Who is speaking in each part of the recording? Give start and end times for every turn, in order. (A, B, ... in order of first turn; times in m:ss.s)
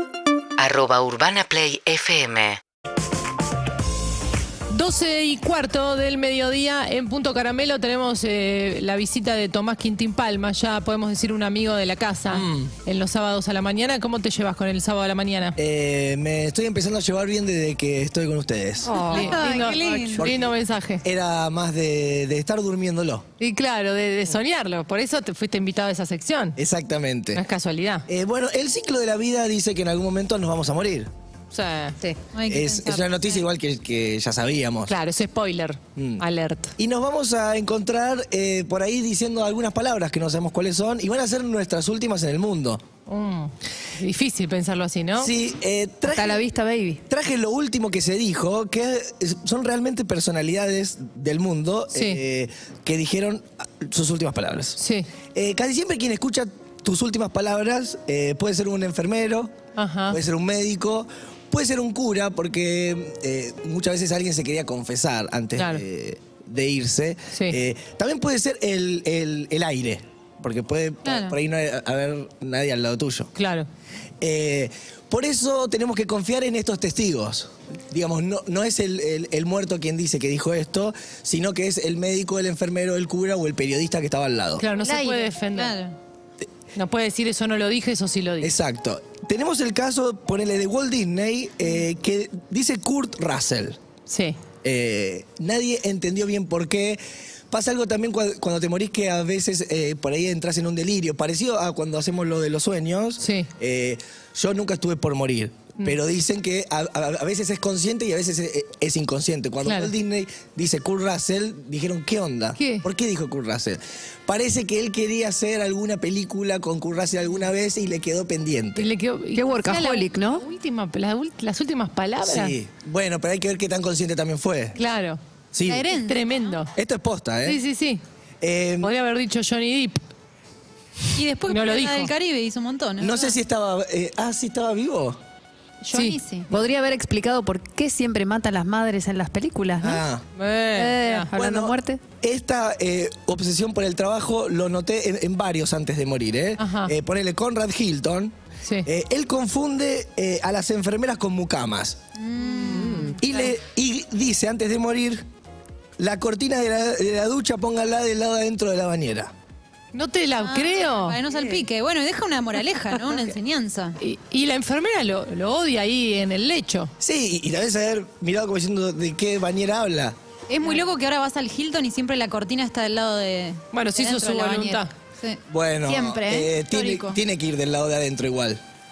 0:00.6-0:02.6 A
0:04.7-0:15.6 B
0:12.3-0:12.7 C
0:15.6-0:19.0 C
0:18.9-0:20.2 D
0:19.0-0:20.0 E
0:19.0-0:21.0 B
0:20.2-0:23.2 C
0:23.4-0:26.6 B
0:26.6-0:27.4 C
0:27.3-0:28.1 B
0:28.1-0:31.1 C
0:31.5-0:32.0 B
0:32.2-0:33.4 D
0:32.5-0:34.9 C
0:34.9-0:36.7 B
0:36.0-0:36.2 C
0:36.8-0:42.8 C
0:43.1-0:45.3 B
0:45.2-0:46.4 C
0:46.0-0:47.0 E
0:47.1-0:54.8 C
0:51.9-0:52.2 B
0:54.8-0:55.1 B
0:55.3-0:59.6 C
0:59.8-1:00.2 B
1:00.1-1:13.3 C
1:05.6-1:05.8 B
1:11.0-1:11.4 D
1:13.3-1:13.7 B
1:14.2-1:24.6 C
1:24.6-1:25.8 B
1:24.8-1:25.9 D
1:26.7-1:28.5 B
1:28.4-1:33.8 C
1:34.1-1:34.4 B
1:34.6-1:58.9 C
1:43.2-1:43.5 B
1:49.6-1:49.9 B
1:52.6-1:52.8 B
1:58.8-2:02.6 B
1:59.3-2:00.4 E
2:02.2-2:04.8 C
2:04.8-2:05.2 B
2:05.5-2:05.9 C
2:05.6-2:06.5 D
2:05.9-2:06.7 B
2:06.7-2:07.6 C
2:07.4-2:08.0 B
2:08.4-2:08.9 C
2:08.8-2:10.0 B
2:11.1-2:13.4 D
2:11.4-2:12.1 B
2:13.0-2:15.2 C
2:15.8-2:16.5 D
2:15.9-2:16.2 B
2:16.5-2:20.0 E
2:19.8-2:20.2 C
2:20.4-2:21.3 B
2:20.7-2:22.0 E
2:21.4-2:32.0 C
2:26.6-2:26.9 B
2:32.2-2:33.4 D
2:32.6-2:33.1 E
2:33.2-2:35.2 C
2:36.0-2:39.3 C
2:39.9-2:41.2 B
2:40.3-2:44.0 D
2:44.0-2:46.9 B
2:47.0-2:50.2 C
2:50.5-2:55.4 D
2:53.7-2:54.9 B
2:55.5-2:58.6 C
2:55.9-2:57.2 D
2:56.0-2:56.5 E